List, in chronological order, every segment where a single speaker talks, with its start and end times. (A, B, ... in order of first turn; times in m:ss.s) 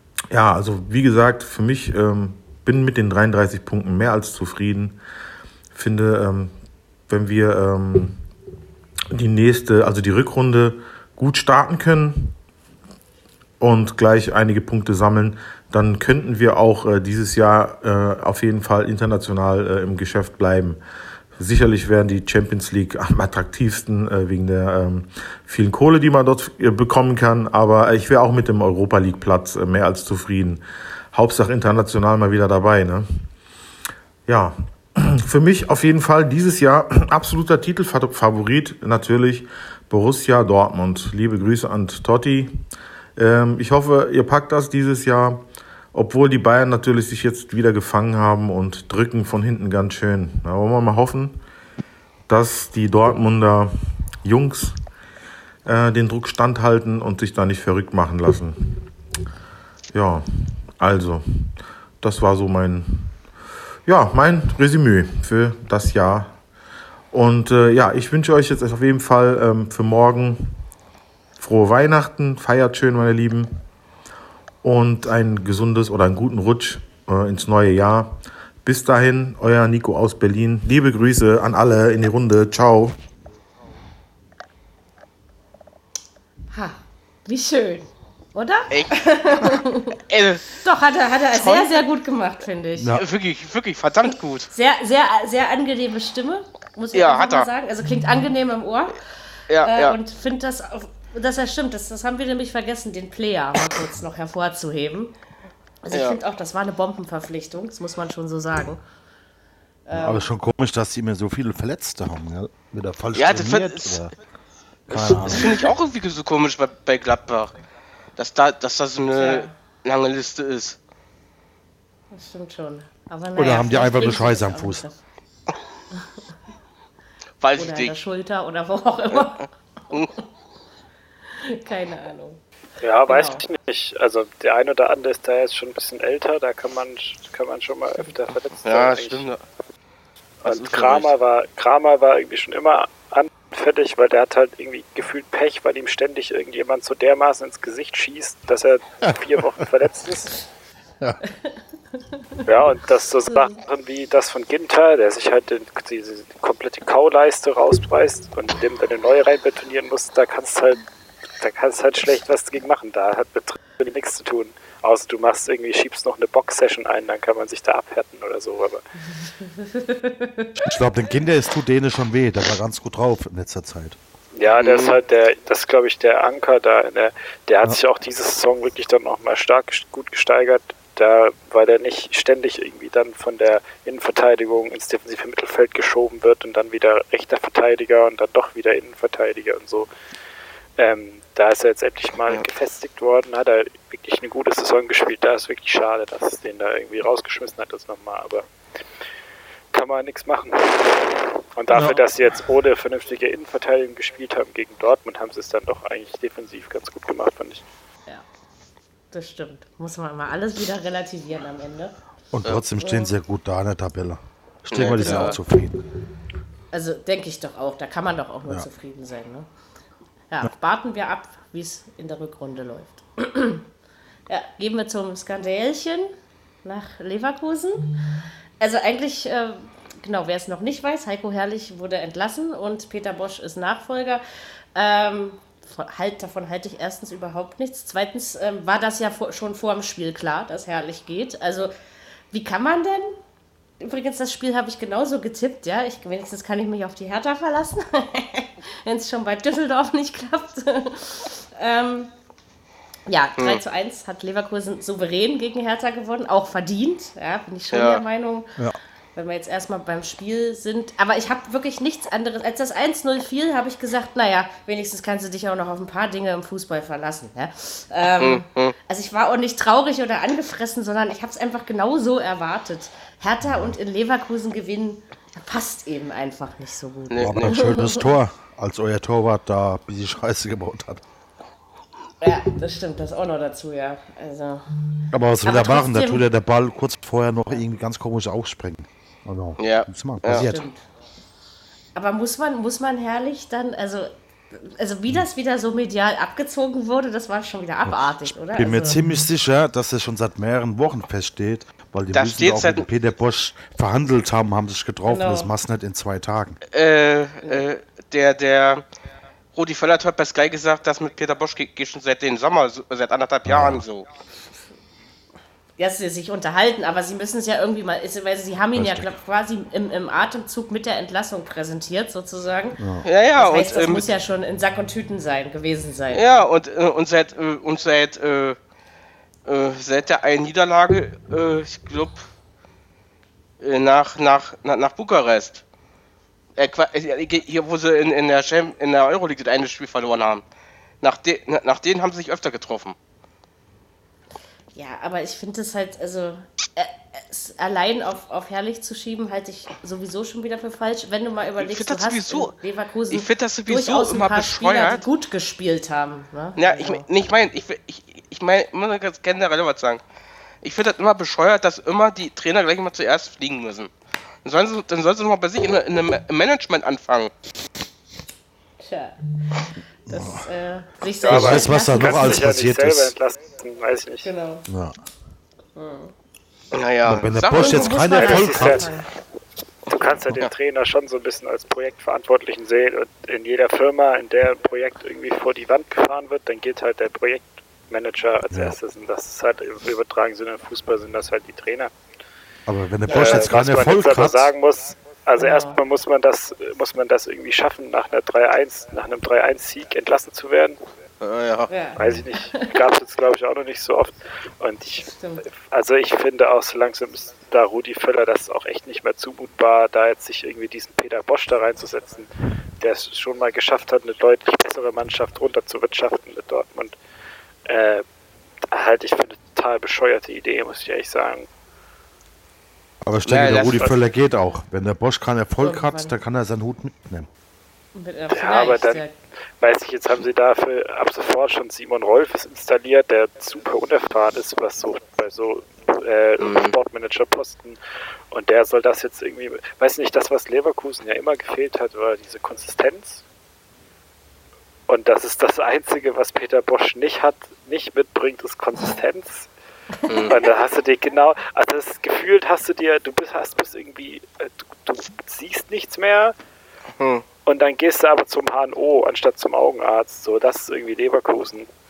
0:00.3-0:05.0 A
0:05.7-0:06.5 A
0:07.1-0:08.2 A
0:09.1-0:12.4 A
0:13.6-0:20.8 A
0:21.4-0:33.2 A
0:34.3-0:42.6 A
0:43.2-0:51.4 A
0:52.3-0:54.8 A
0:55.6-0:58.8 A
0:59.9-1:00.2 A
1:00.8-1:03.2 A
1:03.8-1:06.4 A
1:07.1-1:10.6 A
1:11.4-1:13.6 A
1:14.6-1:23.0 A
1:26.5-1:30.0 B
1:28.7-1:30.6 C
1:30.5-1:33.0 B
1:31.4-1:31.7 C
1:32.8-1:33.0 D
1:32.9-1:34.5 C
1:34.5-1:39.0 B
1:36.9-1:37.5 C
1:39.5-1:40.0 C
1:39.6-1:45.1 B
1:45.8-1:48.8 B
1:45.9-1:46.2 C
1:49.9-1:50.3 B
1:49.9-1:54.1 D
1:53.1-1:54.0 C
1:54.9-1:55.6 D
1:54.9-1:57.5 C
1:58.2-2:00.8 C
1:59.1-1:59.5 B
2:02.1-2:05.0 B
2:03.4-2:04.8 D
2:07.4-2:07.9 C
2:07.5-2:10.0 B
2:11.3-2:12.4 B
2:12.8-2:19.3 E
2:13.1-2:13.4 B
2:18.6-2:19.4 C
2:20.4-2:30.4 E
2:20.4-2:21.1 C
2:32.1-2:32.4 B
2:32.4-2:40.8 E
2:41.4-2:48.8 E
2:49.5-2:50.5 B
2:50.6-2:54.0 D
2:54.3-3:09.9 E
2:54.6-2:55.0 C
3:10.8-3:18.4 E
3:19.7-3:27.6 E
3:29.1-3:31.9 B
3:32.3-3:35.8 D
3:32.8-3:33.1 B
3:34.7-3:35.4 C
3:35.0-3:35.4 B
3:36.7-3:39.5 B
3:40.3-3:43.6 B
3:44.3-3:46.1 B
3:46.6-3:48.0 B
3:48.6-3:54.2 B
3:54.7-4:01.7 B
4:02.3-4:03.2 B
4:03.8-4:12.1 B
4:13.1-4:18.6 B
4:17.7-4:18.0 C
4:19.1-4:38.1 B
4:28.2-4:28.7 C
4:33.4-4:33.7 D
4:37.1-4:37.6 C
4:37.2-4:41.0 D
4:42.2-4:44.7 B
4:45.1-4:50.6 D
4:45.4-4:46.2 B
4:49.6-4:50.5 C
4:50.3-4:50.8 B
4:51.9-4:59.0 B
4:58.6-5:06.6 D
5:02.1-5:02.8 C
5:05.0-5:05.5 B
5:06.7-5:08.8 C
5:09.5-5:14.0 C
5:13.4-5:13.8 D
5:15.8-5:22.8 B
5:18.7-5:19.1 D
5:22.8-5:23.0 D
5:23.0-5:24.1 C
5:23.4-5:26.4 B
5:26.1-5:28.6 C
5:29.4-5:32.3 C
5:33.6-5:35.6 C
5:36.6-5:40.4 C
5:41.0-5:43.0 C
5:44.7-5:57.0 B
5:51.6-5:52.5 C
5:53.1-5:55.1 C
5:56.6-6:00.0 C
6:00.6-6:03.9 C
6:04.4-6:07.3 C
6:08.8-6:12.4 B
6:10.1-6:10.4 D
6:11.2-6:14.3 E
6:11.2-6:13.1 D
6:14.2-6:14.6 B
6:14.7-6:15.0 D
6:15.8-6:16.1 B
6:16.7-6:18.3 C
6:17.0-6:18.9 D
6:17.5-6:19.1 B
6:18.1-6:18.9 E
6:19.9-6:31.9 E
6:19.9-6:20.5 C
6:32.7-6:34.5 D
6:33.1-6:40.8 E
6:33.1-6:33.4 B
6:35.4-6:35.8 B
6:41.2-6:41.7 C
6:41.7-6:42.7 B
6:42.0-6:56.9 E
6:42.0-6:42.2 D
6:45.0-6:45.4 B
6:57.7-6:58.0 E
6:58.7-7:01.5 E
7:03.0-7:07.3 D
7:03.2-7:04.0 C
7:05.6-7:06.1 B
7:08.0-7:09.1 B
7:08.3-7:09.0 E
7:09.6-7:17.8 E
7:16.4-7:16.7 C
7:18.3-7:23.2 E
7:24.9-7:29.5 E
7:30.1-7:30.3 C
7:30.2-7:36.3 E
7:37.0-7:37.2 C
7:37.4-7:41.7 E